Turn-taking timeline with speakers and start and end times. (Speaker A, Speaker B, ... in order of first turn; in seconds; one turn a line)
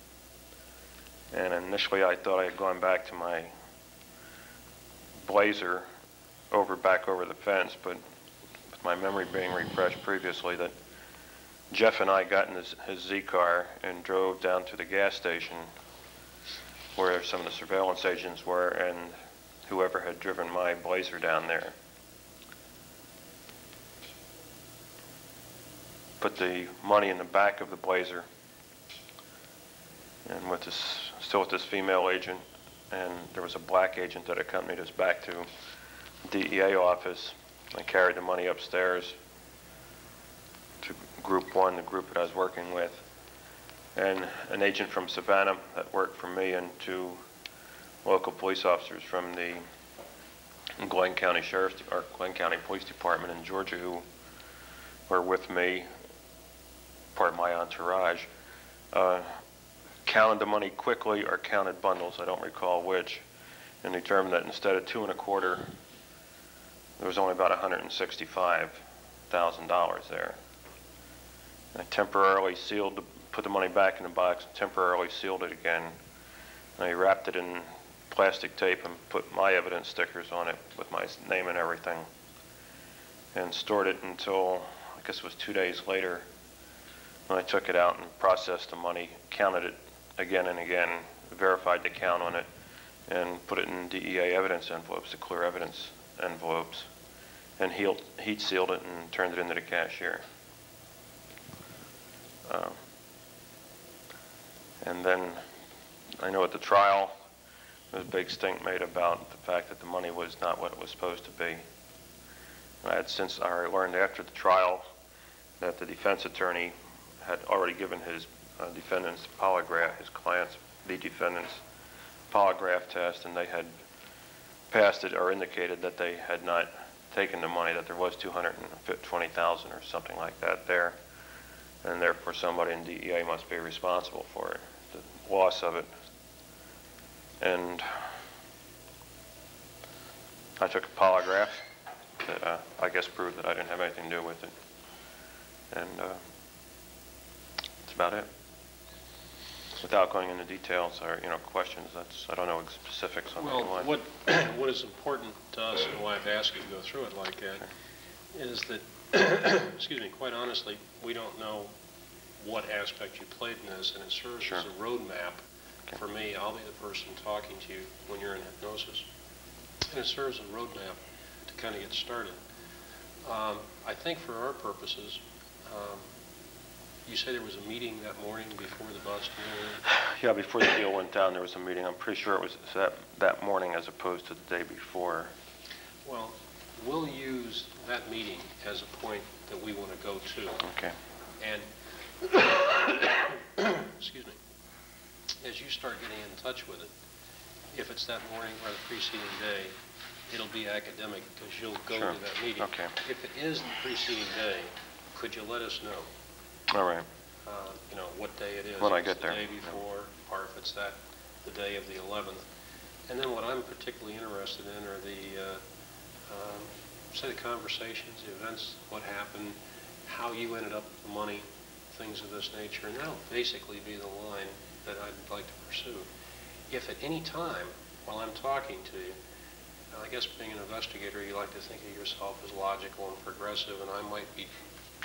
Speaker A: 1.3-3.5
Speaker A: 5.2-5.9
Speaker A: 6.5-8.0
Speaker A: 8.7-10.7
Speaker A: 11.7-15.7
Speaker A: 17.0-19.1
Speaker A: 19.7-21.8
Speaker A: 26.2-28.3
Speaker A: 30.3-35.5
Speaker A: 36.2-39.1
Speaker A: 40.8-43.0
Speaker A: 44.0-47.2
Speaker A: 48.0-49.6
Speaker A: 50.8-54.0
Speaker A: 55.1-55.9
Speaker A: 57.1-58.3
Speaker A: 58.9-59.4
Speaker A: 60.1-63.2
Speaker A: 63.8-65.7
Speaker A: 67.0-68.8
Speaker A: 69.3-70.4
Speaker A: 71.7-75.9
Speaker A: 76.8-82.1
Speaker A: 83.3-86.2
Speaker A: 87.3-92.5
Speaker A: 93.1-96.9
Speaker A: 97.6-100.2
Speaker A: 102.5-102.8
Speaker A: 104.8-105.4
Speaker A: 106.2-107.1
Speaker A: 107.9-111.6
Speaker A: 112.8-114.8
Speaker A: 115.6-121.6
Speaker A: 122.3-123.7
Speaker A: 124.7-131.0
Speaker A: 131.8-135.9
Speaker A: 137.4-138.2
Speaker A: 140.6-141.6
Speaker A: 142.2-144.5
Speaker A: 145.7-146.2
Speaker A: 147.9-148.3
Speaker A: 149.8-153.9
Speaker B: 153.4-157.7
Speaker B: 158.3-161.7
Speaker B: 162.4-169.1
Speaker B: 169.9-172.4
Speaker B: 173.2-176.1
Speaker B: 177.1-179.8
Speaker A: 179.9-185.3
Speaker B: 186.0-190.6
Speaker A: 190.6-191.0
Speaker B: 191.4-191.7
Speaker B: 192.2-194.4
Speaker B: 195.4-196.9
Speaker B: 197.7-199.7
Speaker B: 200.3-206.1
Speaker A: 201.9-202.9
Speaker A: 206.7-207.1
Speaker B: 207.5-212.4
Speaker A: 208.8-209.4
Speaker B: 213.1-215.6
Speaker B: 216.3-226.1
Speaker B: 226.7-229.2
Speaker B: 229.9-234.5